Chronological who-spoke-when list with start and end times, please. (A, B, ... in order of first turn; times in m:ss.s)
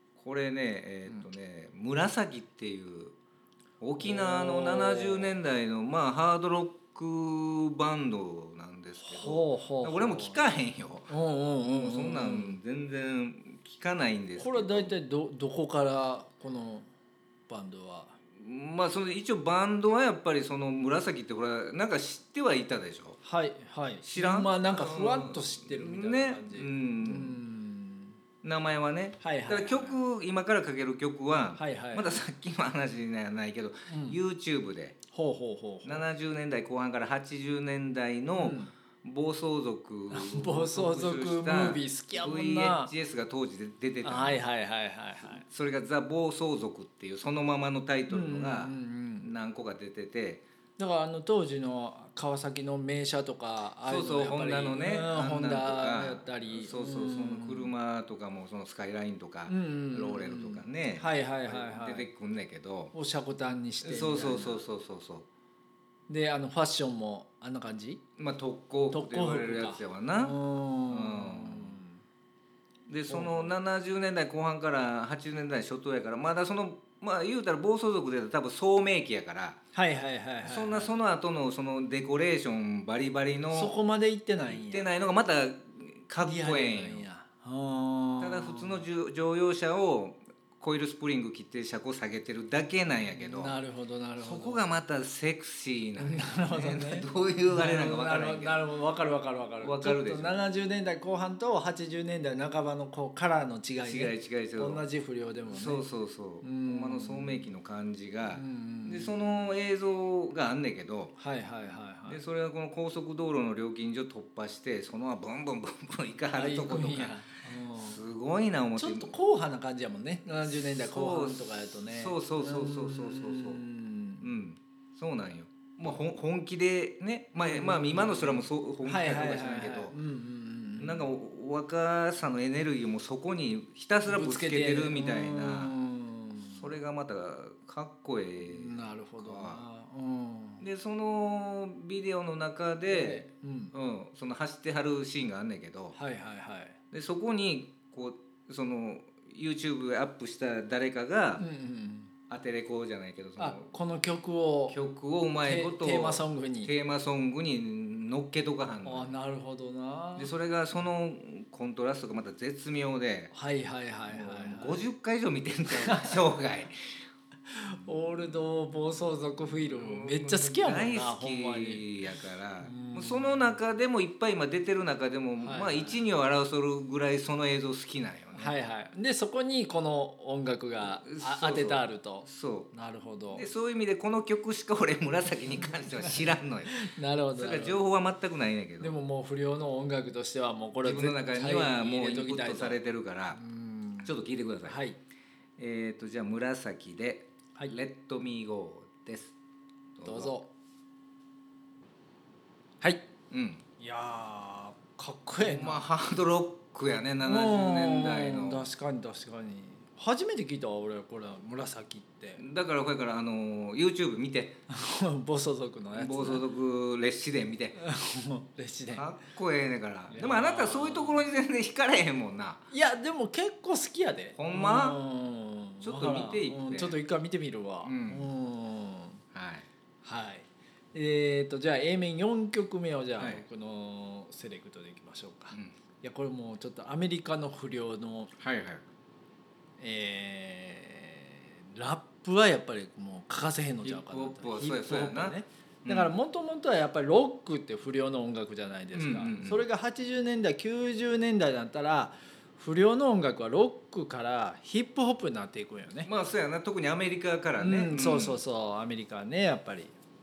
0:00.2-0:03.2 A
0:03.8-0:11.1 A
0:04.0-0:05.4 B
0:09.0-0:10.5 B
0:11.1-0:12.6 B
0:11.6-0:14.9 A
0:14.4-0:16.9 B
0:17.5-0:18.2 B
0:18.3-0:23.2 A
0:23.2-0:28.2 B
0:24.0-0:27.4 A
0:28.4-0:35.0 A
0:29.2-0:30.0 B
0:31.6-0:32.2 B
0:33.9-0:34.2 B
0:35.1-0:36.0 B
0:35.8-0:44.4 A
0:38.4-0:38.7 B
0:40.1-0:42.9 B
0:44.0-0:45.4 B
0:45.2-0:50.4 A
0:48.1-0:49.3 B
0:50.8-0:57.7 B
0:53.9-1:02.9 A
0:59.5-1:02.1 B
1:02.9-1:04.6 B
1:03.8-1:05.3 A
1:06.1-1:08.0 B
1:08.2-1:10.4 A
1:08.9-1:12.0 B
1:10.9-1:11.8 A
1:12.9-1:19.6 A
1:13.1-1:13.6 B
1:19.7-1:20.9 B
1:20.4-1:23.8 A
1:23.5-1:24.9 B
1:24.5-1:27.1 A
1:26.2-1:28.8 B
1:28.2-1:33.6 A
1:33.2-1:34.6 B
1:34.2-1:38.6 A
1:36.0-1:45.9 B
1:39.6-1:40.4 A
1:43.8-1:44.8 A
1:45.5-1:51.1 A
1:46.4-1:47.5 B
1:48.3-1:49.2 B
1:51.2-1:52.2 B
1:52.1-1:59.1 A
1:56.3-1:58.0 B
1:58.8-2:04.3 B
2:00.4-2:03.6 A
2:04.2-2:10.0 A
2:07.4-2:11.1 B
2:10.8-2:15.8 A
2:14.1-2:16.7 B
2:16.5-2:19.6 A
2:18.4-2:20.6 B
2:20.6-2:26.0 A
2:22.9-2:23.8 B
2:25.9-2:26.8 B
2:26.9-2:31.4 A
2:31.4-2:32.1 B
2:32.3-2:33.7 A
2:33.4-2:34.8 B
2:34.7-2:39.2 A
2:35.4-2:36.7 B
2:38.8-2:40.3 B
2:40.2-2:43.3 A
2:43.3-2:44.9 B
2:44.1-2:47.0 A
2:45.7-2:46.2 B
2:47.5-2:51.9 B
2:47.8-2:48.4 A
2:49.5-2:58.5 A
2:52.6-2:53.5 B
2:55.4-2:56.0 B
2:58.3-3:03.5 B
3:00.8-3:02.7 A
3:03.3-3:09.0 A
3:05.7-3:07.9 B
3:08.8-3:12.8 B
3:10.8-3:13.4 A
3:13.3-3:15.0 B
3:14.0-3:14.8 A
3:15.6-3:19.4 A
3:20.0-3:20.4 A
3:20.0-3:20.5 B
3:23.3-3:23.6 A
3:23.8-3:25.9 B
3:25.4-3:28.7 A
3:27.2-3:32.4 B
3:32.4-3:34.6 A
3:34.7-3:36.4 B
3:35.9-3:37.8 A
3:37.8-3:39.1 B
3:38.9-3:42.6 A
3:40.1-3:41.3 B
3:42.7-3:49.2 B
3:44.4-3:45.0 A
3:45.8-3:47.0 A
3:47.8-3:48.3 A
3:49.3-3:49.7 A
3:50.0-3:58.3 B
3:53.2-3:53.4 A
3:58.4-3:58.8 A
3:59.8-4:16.1 B
4:03.8-4:06.1 A
4:08.9-4:09.7 A
4:16.0-4:18.4 A
4:17.6-4:19.9 B